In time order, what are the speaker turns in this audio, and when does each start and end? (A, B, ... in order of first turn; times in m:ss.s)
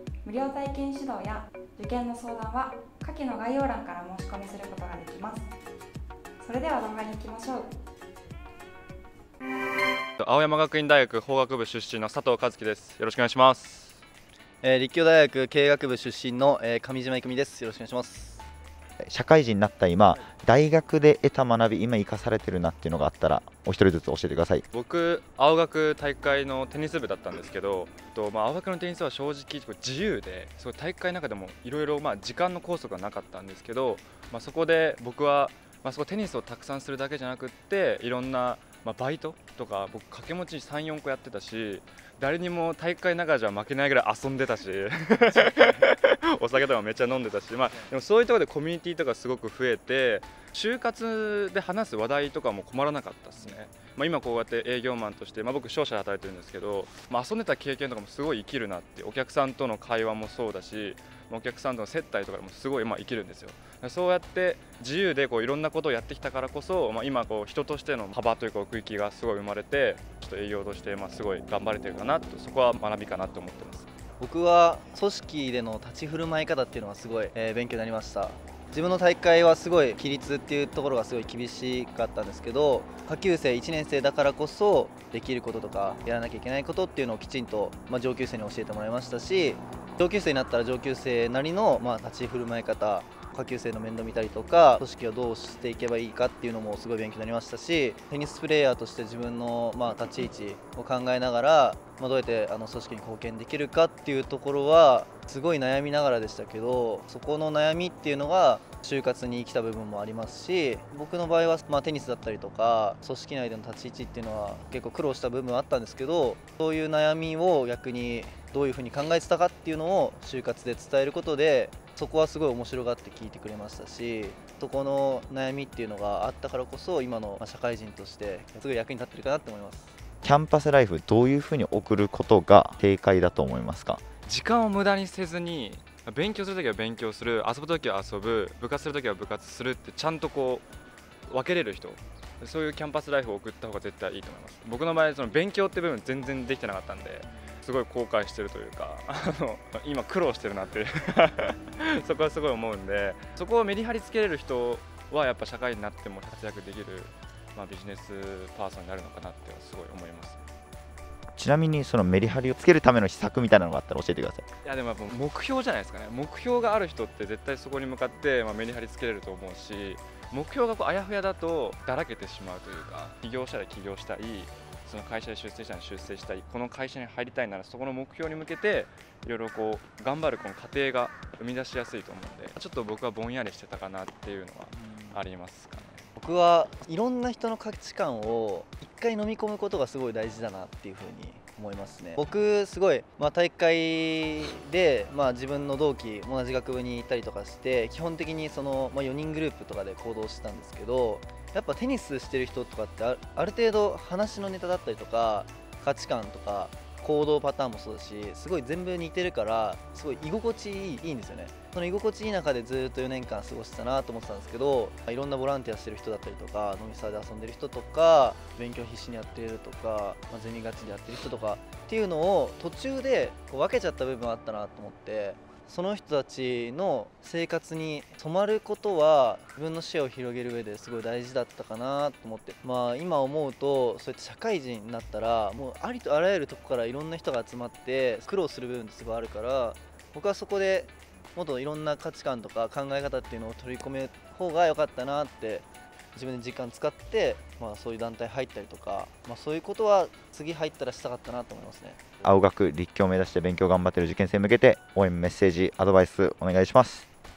0:00.2-0:05.5 A
0:06.4-0:07.7 A
0:10.2-0:14.0 B
0:14.6-0:18.5 C
0:19.0-0:24.6 D
0:24.7-1:13.9 B
1:14.2-2:09.9 C
2:10.2-2:14.0 D
2:14.2-2:20.6 B
2:21.3-2:40.4 B
2:41.4-2:44.5 D
2:44.6-3:06.0 B
3:04.7-3:05.2 C
3:06.2-4:12.0 C
4:12.2-4:17.1 D